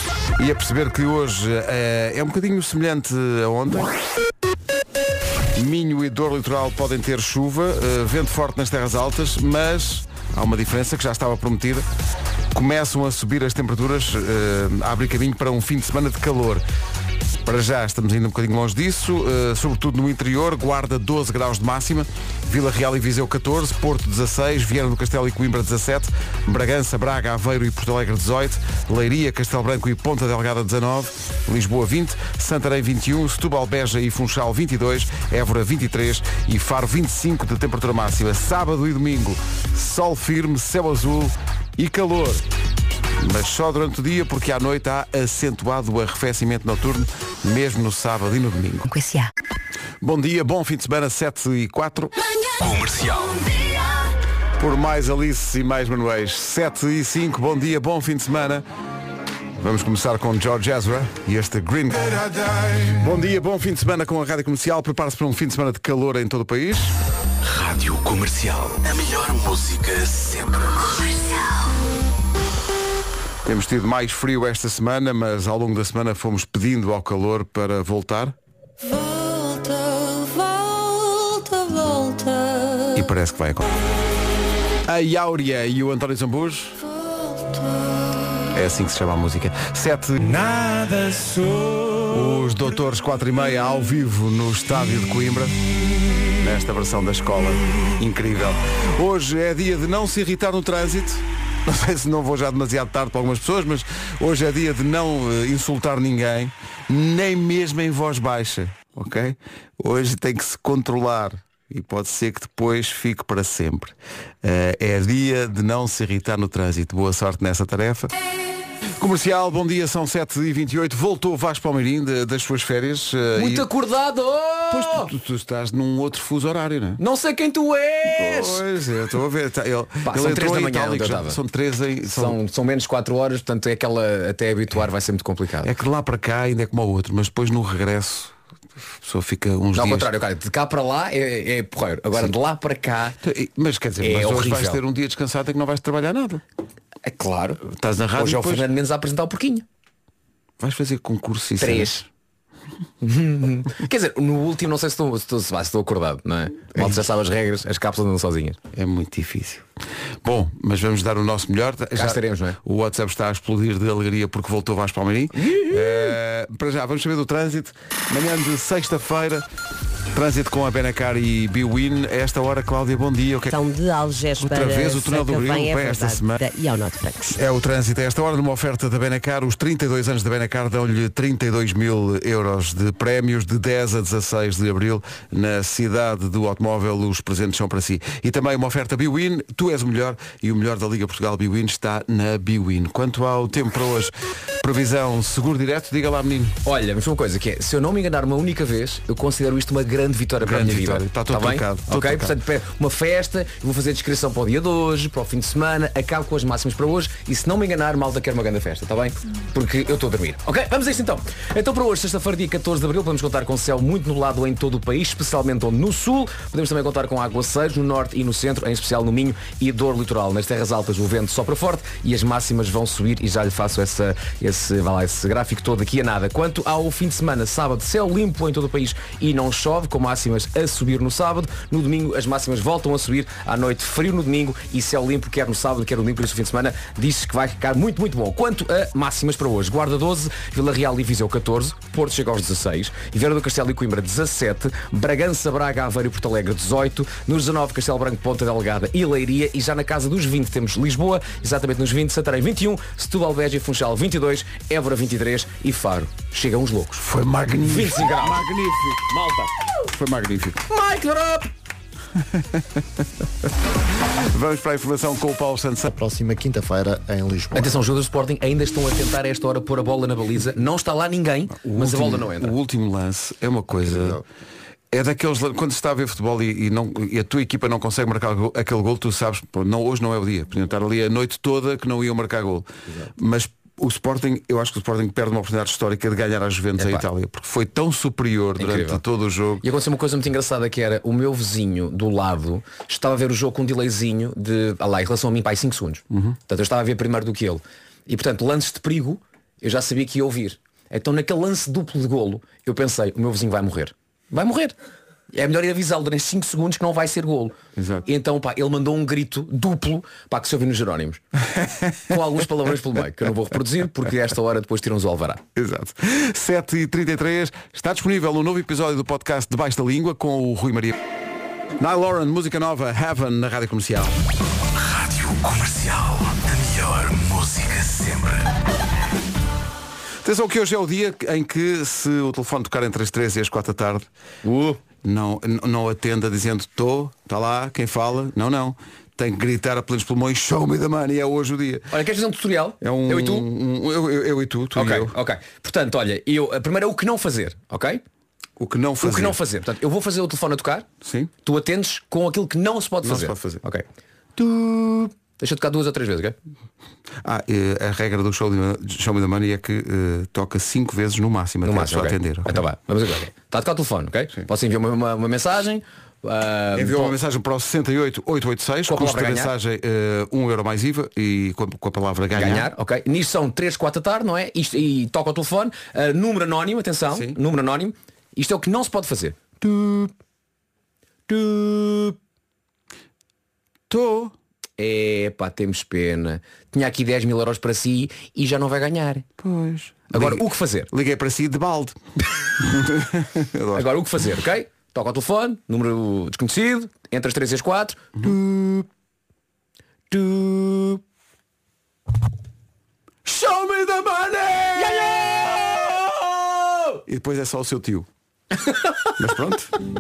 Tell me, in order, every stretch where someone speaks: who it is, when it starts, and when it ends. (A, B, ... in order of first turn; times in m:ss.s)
0:00.4-0:03.9 A
0:05.5-0:11.9 A
0:12.5-0:16.6 A
0:17.4-0:42.4 A
0:43.2-0:48.9 A
0:48.9-0:49.3 B
0:50.0-0:52.1 A
0:52.6-0:53.8 C
0:54.6-0:58.6 A
0:59.6-1:06.9 A
1:02.4-1:02.9 C
1:07.4-1:11.4 C
1:13.4-1:18.4 A
1:22.9-1:23.8 A
1:24.8-1:26.8 A
1:28.5-1:30.4 A
1:30.4-1:32.1 C
1:32.1-1:35.6 A
1:36.3-1:58.1 A
1:59.0-2:03.7 A
2:03.4-2:05.1 D
2:04.7-2:07.0 A
2:07.0-2:08.6 D
2:08.1-2:12.4 A
2:10.0-2:11.4 D
2:12.1-2:15.7 D
2:15.6-2:18.4 A
2:19.0-2:20.1 A
2:19.7-2:23.2 D
2:23.2-2:26.4 A
2:24.0-2:24.8 D
2:27.0-2:27.6 D
2:27.6-2:28.7 A
2:28.2-2:29.6 D
2:30.6-2:32.0 A
2:31.6-2:32.1 D
2:33.0-2:38.6 D
2:38.7-2:39.7 A
2:40.2-2:49.4 A
2:42.0-2:42.6 D
2:45.4-2:46.2 D
2:50.1-2:53.5 A
2:53.5-2:57.4 B
2:54.4-2:56.4 A
2:57.3-3:16.6 A
3:16.6-4:17.0 D
3:20.4-3:22.4 A
4:17.0-4:19.2 A
4:17.6-4:18.5 D
4:19.1-4:19.5 D
4:19.9-4:20.6 A
4:20.7-4:21.5 D
4:22.1-4:23.0 A
4:24.0-4:25.9 A
4:25.9-4:27.7 E
4:27.5-4:32.5 D
4:31.5-4:34.2 A
4:33.9-4:34.2 E
4:34.9-4:49.6 A
4:46.8-4:47.0 D
4:48.6-4:49.0 D
4:49.6-5:04.8 D
4:56.1-4:56.4 A
5:05.3-5:11.2 D
5:07.8-5:08.1 A
5:11.5-5:11.9 A
5:12.0-5:15.4 D
5:15.5-5:21.0 A
5:21.8-5:24.2 A
5:24.8-5:28.4 C
5:30.2-5:34.1 A
5:34.4-5:34.8 D
5:35.0-5:41.9 A
5:41.9-5:43.5 D
5:42.8-5:45.1 A
5:44.8-5:48.0 D
5:48.6-5:49.4 A
5:49.0-5:50.9 D
5:51.0-5:51.3 A
5:51.4-5:53.8 D
5:53.0-5:53.6 A
5:54.4-5:56.4 D
5:57.2-6:02.6 A
6:01.6-6:07.2 D
6:06.7-6:12.7 A
6:08.9-6:09.5 D
6:12.3-6:20.1 D
6:17.1-6:17.4 A
6:21.3-6:22.2 D
6:23.9-6:24.3 A
6:24.8-6:29.2 D
6:29.4-6:32.0 A
6:30.1-6:30.9 D
6:32.6-6:33.9 A
6:33.8-6:38.9 D
6:40.1-6:41.0 D
6:43.2-6:44.9 A
6:44.7-6:47.0 D
6:47.1-6:48.1 A
6:48.7-6:49.1 D
6:49.2-6:49.8 A